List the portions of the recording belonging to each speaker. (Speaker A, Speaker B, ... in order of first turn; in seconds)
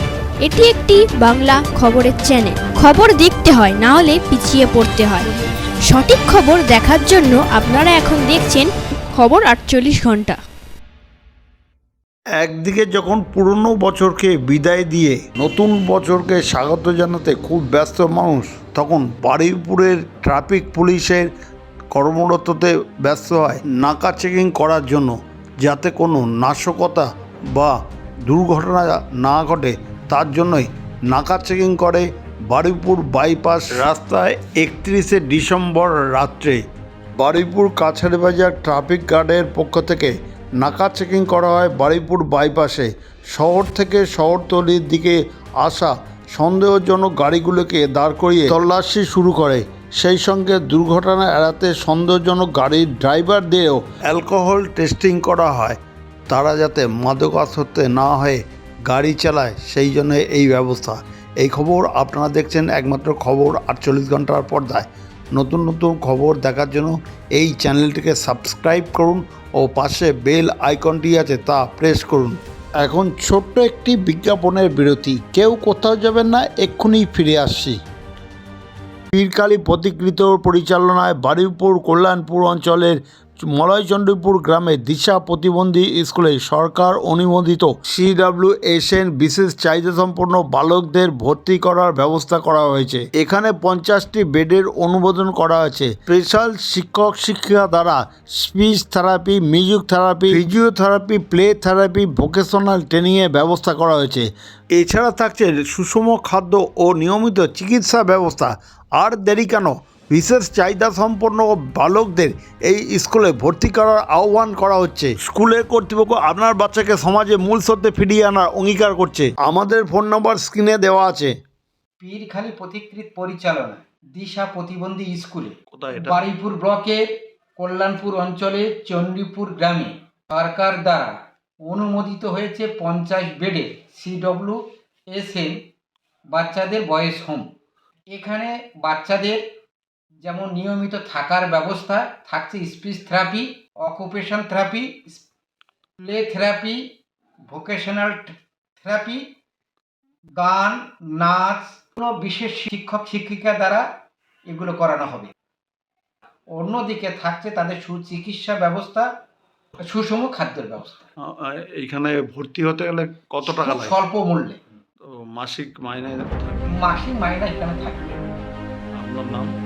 Speaker A: 0.4-5.3, 5.9-10.4
Speaker B: 12.4-21.3, 21.9-27.7, 28.3-36.6, 37.2-55.8, 56.3-77.8, 79.1-121.3, 125.7-126.2, 161.2-164.0, 165.0-166.9, 169.0-169.5
Speaker C: 122.0-127.0, 127.6-131.2, 131.7-135.6, 136.3-137.5, 138.1-139.4, 140.2-145.2, 146.0-146.8, 147.5-149.2, 150.4-153.9, 154.5-155.3, 156.6-159.1, 159.8-161.1, 163.4-164.6, 166.7-168.2